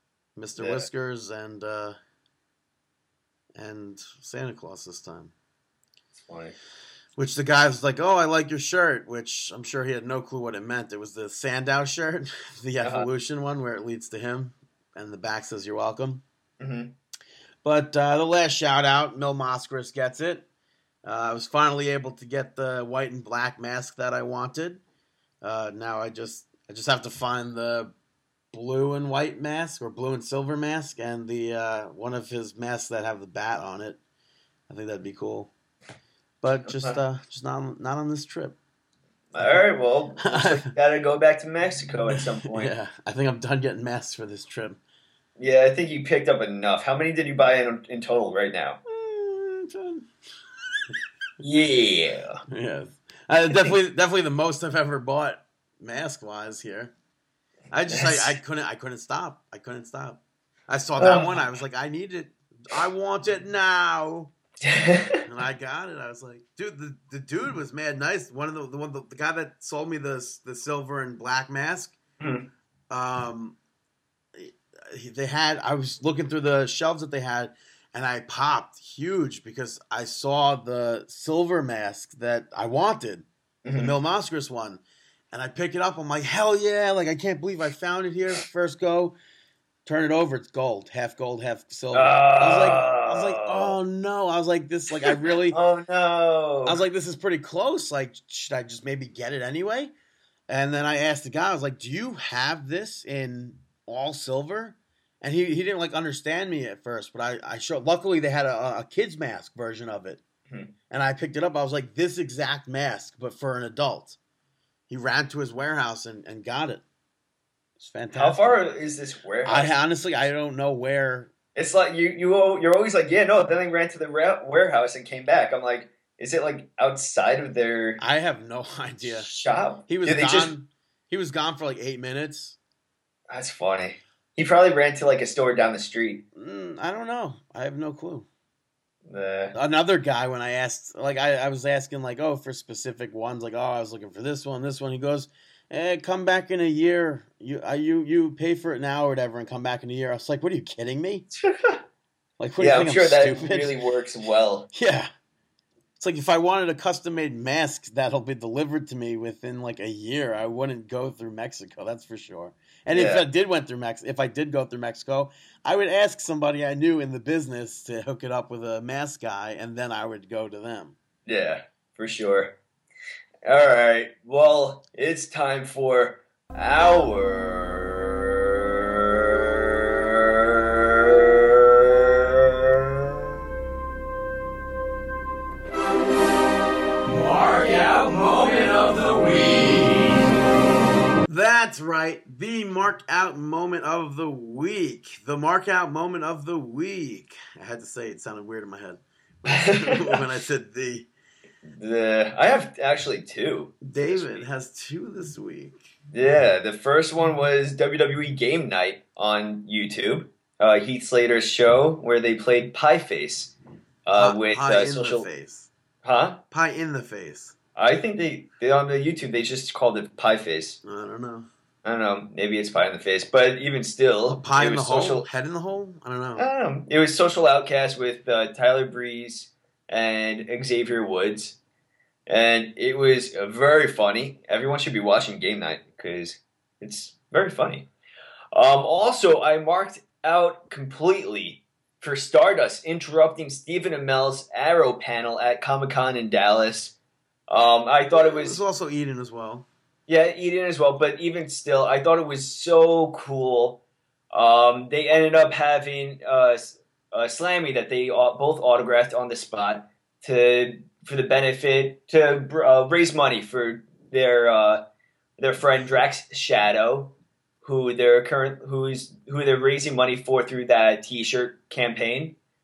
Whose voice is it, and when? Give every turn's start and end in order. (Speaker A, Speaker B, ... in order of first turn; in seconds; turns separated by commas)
Speaker A: 0.4-1.9, Speaker B: 0.6-0.9, Speaker A: 3.5-5.3, Speaker B: 6.2-6.6, Speaker A: 7.2-16.2, Speaker B: 12.8-13.1, Speaker B: 16.6-16.9, Speaker A: 17.6-20.4, Speaker A: 21.1-24.8, Speaker A: 25.4-27.9, Speaker A: 28.5-34.0, Speaker A: 34.7-35.5, Speaker A: 36.4-38.6, Speaker B: 36.6-37.0, Speaker B: 39.3-42.7, Speaker A: 40.2-40.7, Speaker A: 42.5-44.8, Speaker B: 45.4-48.8, Speaker A: 48.9-50.1, Speaker A: 50.7-51.0, Speaker B: 51.4-52.4, Speaker A: 52.5-56.9, Speaker A: 57.7-64.3, Speaker B: 57.9-58.4, Speaker B: 61.0-61.4, Speaker B: 64.7-65.2, Speaker A: 65.2-72.0, Speaker B: 72.2-72.5, Speaker A: 72.9-73.6, Speaker A: 74.3-84.8, Speaker B: 83.7-83.9, Speaker A: 85.3-89.2, Speaker A: 89.9-95.6, Speaker B: 91.9-93.8, Speaker B: 95.0-96.8, Speaker A: 96.7-99.9, Speaker A: 100.5-110.2, Speaker A: 110.9-114.2, Speaker A: 114.9-116.8, Speaker A: 117.8-118.6, Speaker B: 118.1-119.7, Speaker A: 119.4-121.3, Speaker B: 121.5-128.0, Speaker A: 128.0-129.3, Speaker B: 129.0-130.5, Speaker A: 129.9-132.6, Speaker B: 133.3-136.2, Speaker A: 136.3-138.3, Speaker B: 139.1-139.6, Speaker A: 139.5-151.3, Speaker B: 151.4-151.8, Speaker A: 152.4-153.8, Speaker B: 152.6-154.7, Speaker A: 154.7-155.1, Speaker A: 156.0-170.9, Speaker B: 162.9-163.2, Speaker B: 171.3-172.6, Speaker B: 173.4-183.1, Speaker C: 187.1-190.2, Speaker A: 191.3-201.1, Speaker B: 199.5-200.2, Speaker B: 201.7-204.4, Speaker A: 203.8-205.8, Speaker B: 206.1-215.3, Speaker A: 214.2-215.7, Speaker B: 216.0-216.4, Speaker A: 216.5-217.6, Speaker B: 217.8-220.8, Speaker A: 220.8-221.5, Speaker B: 221.8-225.3, Speaker A: 224.3-226.5, Speaker B: 226.4-231.6, Speaker B: 232.3-237.9, Speaker B: 238.5-246.9, Speaker B: 247.5-248.6, Speaker A: 248.1-249.7, Speaker B: 250.1-264.8, Speaker B: 265.4-272.4